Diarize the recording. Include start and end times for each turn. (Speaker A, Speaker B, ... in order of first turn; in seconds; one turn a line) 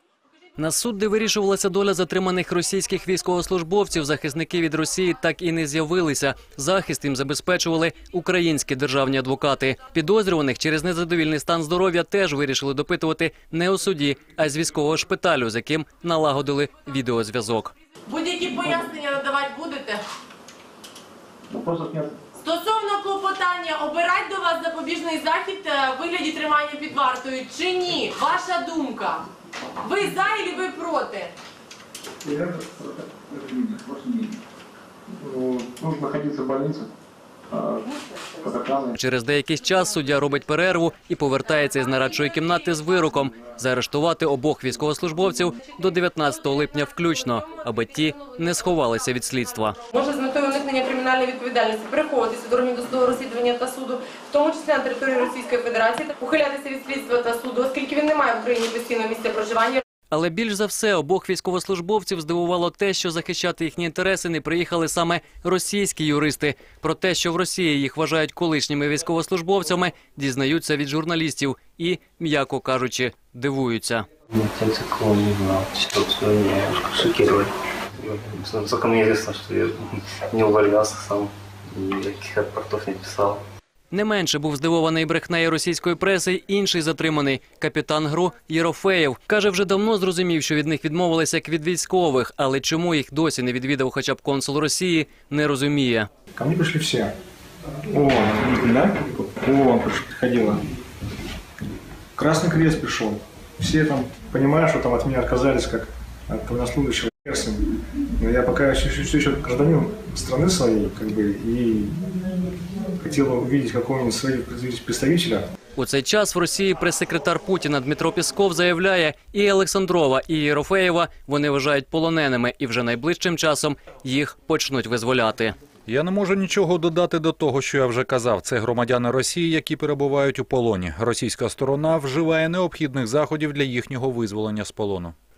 Speaker A: 0.6-17.7
Speaker B: 18.1-20.0
Speaker C: 21.5-22.1
Speaker B: 22.4-29.3
Speaker B: 29.8-31.3
Speaker C: 32.2-34.4
Speaker C: 35.2-36.9
Speaker C: 37.5-37.9
Speaker C: 38.4-39.0
Speaker A: 39.0-49.8
Speaker B: 49.9-59.8
Speaker A: 60.1-74.1
Speaker D: 74.3-83.4
Speaker A: 83.9-96.1
Speaker E: 96.3-97.1
Speaker E: 97.9-100.6
Speaker E: 102.2-107.7
Speaker E: 108.2-112.1
Speaker E: 113.0-115.5
Speaker A: 115.8-125.5
Speaker F: 125.9-135.2